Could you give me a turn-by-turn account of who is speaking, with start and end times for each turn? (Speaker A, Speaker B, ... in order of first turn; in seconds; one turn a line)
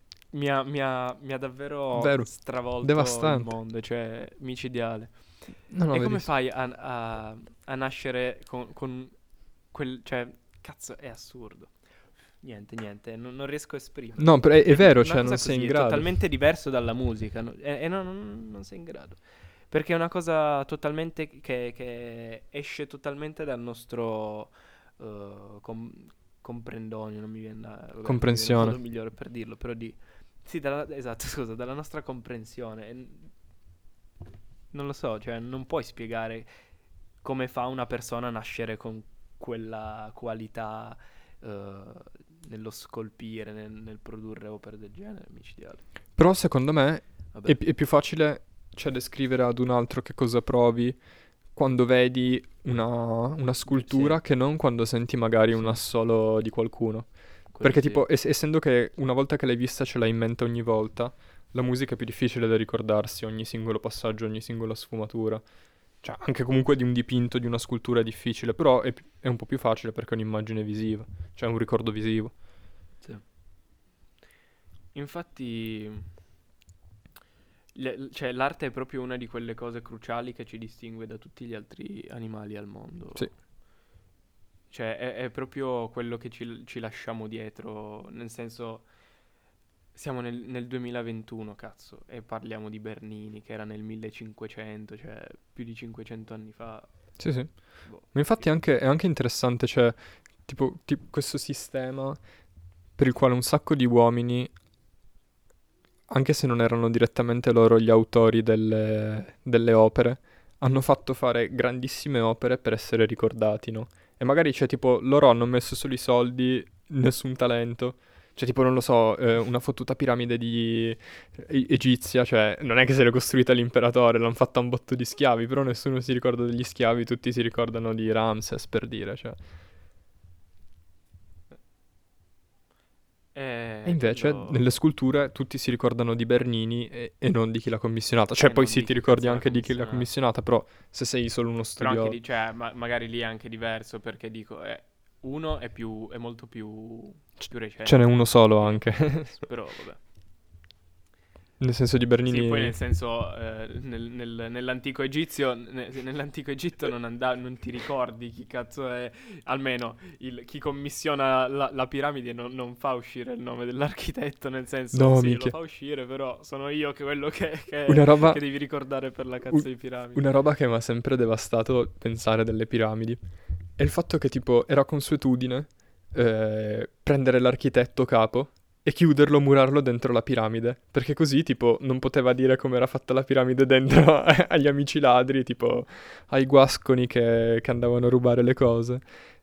Speaker A: 0.3-11.7
Speaker B: 1.9-3.5
Speaker B: 5.7-6.3
Speaker A: 12.4-33.3
Speaker B: 14.2-16.1
Speaker B: 28.0-28.8
Speaker A: 34.7-36.5
Speaker A: 37.2-45.8
Speaker B: 46.2-72.4
Speaker A: 53.6-54.2
Speaker A: 55.5-55.8
Speaker A: 57.5-58.0
Speaker A: 74.9-76.1
Speaker A: 77.7-83.3
Speaker A: 84.7-88.9
Speaker A: 89.9-98.6
Speaker B: 97.2-102.3
Speaker B: 103.0-104.5
Speaker B: 106.1-129.4
Speaker A: 133.3-134.7
Speaker B: 133.8-142.2
Speaker A: 138.4-140.1
Speaker A: 141.8-150.0
Speaker B: 147.8-149.4
Speaker B: 151.6-152.7
Speaker A: 152.2-170.2
Speaker B: 164.9-165.5
Speaker B: 167.9-168.4
Speaker B: 169.5-189.1